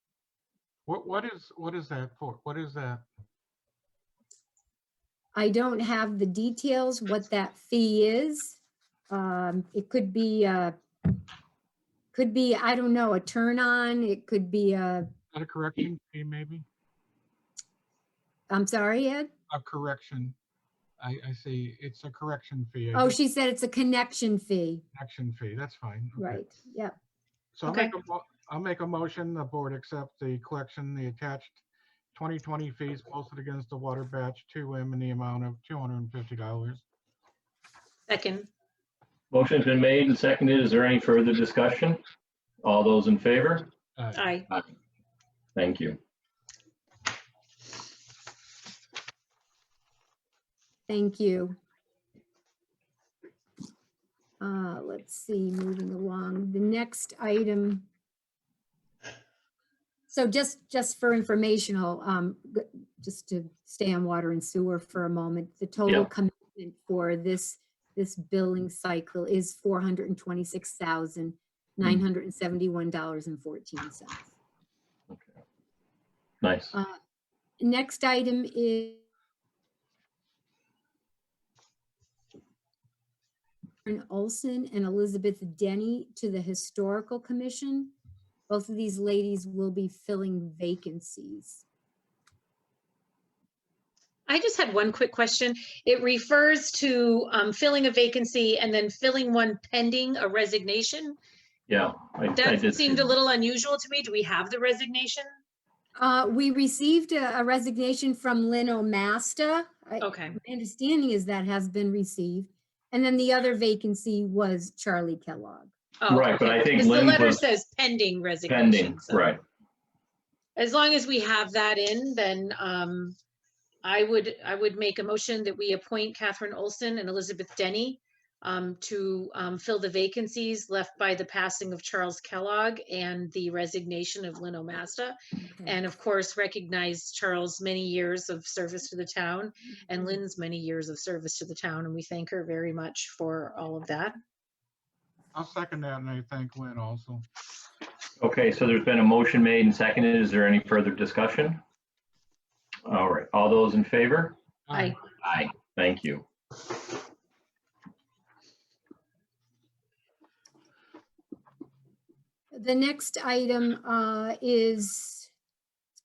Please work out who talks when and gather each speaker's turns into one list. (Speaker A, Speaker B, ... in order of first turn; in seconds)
Speaker A: 0.9-3.0, 15.3-16.7, 19.5-20.4, 21.0-23.2, 24.9-26.4, 27.6-31.6, 32.1-36.8, 44.0-44.2, 145.3-147.2, 154.7-155.0
Speaker B: 5.3-8.6, 9.1-10.8, 12.1-15.1, 18.5-19.3, 22.9-24.8, 26.2-26.9, 50.9-51.6, 54.4-57.9, 60.1-74.3, 77.6-79.0, 83.8-87.9, 88.5-91.6, 106.0-115.7, 162.5-165.3
Speaker C: 27.7-27.9, 38.1-38.5, 44.1-44.5, 94.3-101.2, 102.4-105.3, 110.0-110.4, 116.0-119.4, 120.6-123.2, 123.8-144.2, 154.7-155.0
Speaker D: 39.3-42.0, 42.6-43.7, 45.5-46.0, 76.4-76.7, 101.7-103.1, 116.1-117.5, 118.5-119.4, 148.2-151.6, 152.9-154.4, 155.2-156.3